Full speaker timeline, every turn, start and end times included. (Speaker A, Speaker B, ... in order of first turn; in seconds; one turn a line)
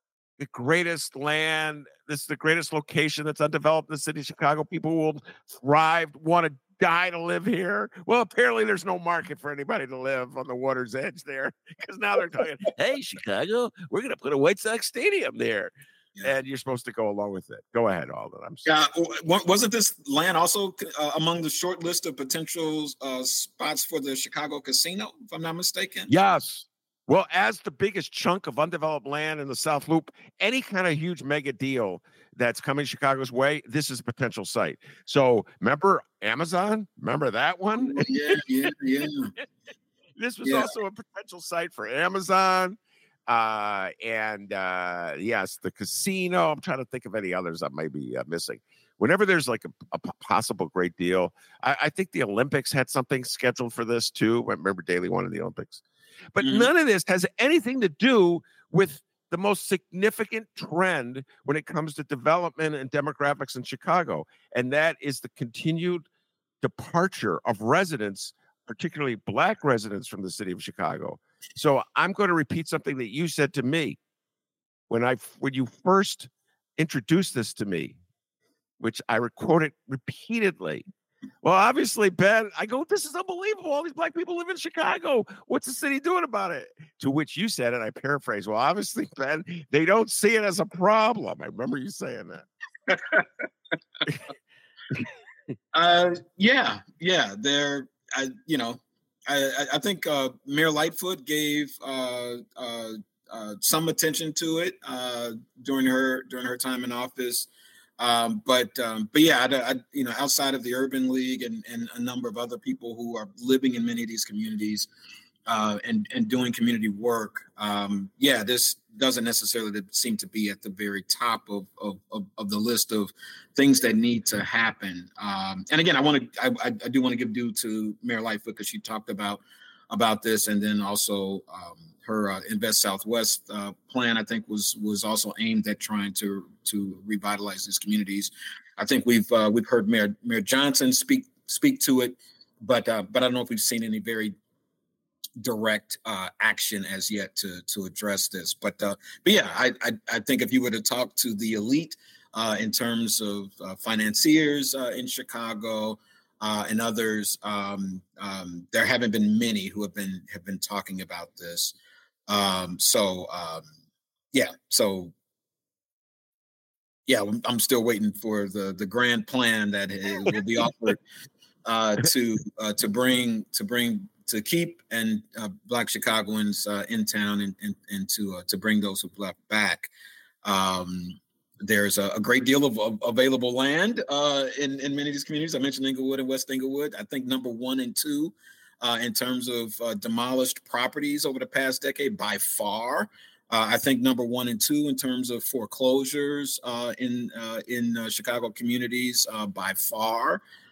Speaker A: 0.4-15.7
Speaker A: 16.2-18.6
Speaker B: 18.6-26.1
Speaker A: 26.1-38.4
Speaker B: 37.8-39.3
Speaker A: 40.2-42.8
Speaker B: 40.4-40.7
Speaker A: 43.3-55.8
Speaker A: 56.3-66.0
Speaker B: 56.4-56.7
Speaker A: 66.6-74.0
Speaker A: 74.9-78.0
Speaker A: 78.8-80.8
Speaker A: 81.4-92.5
Speaker B: 92.9-93.2
Speaker B: 95.7-107.5
Speaker B: 108.0-114.9
Speaker B: 115.5-144.3
Speaker B: 145.4-161.8
Speaker B: 162.3-163.7
Speaker B: 164.3-165.1
Speaker B: 167.1-171.0
Speaker B: 171.7-179.9
Speaker B: 180.4-200.4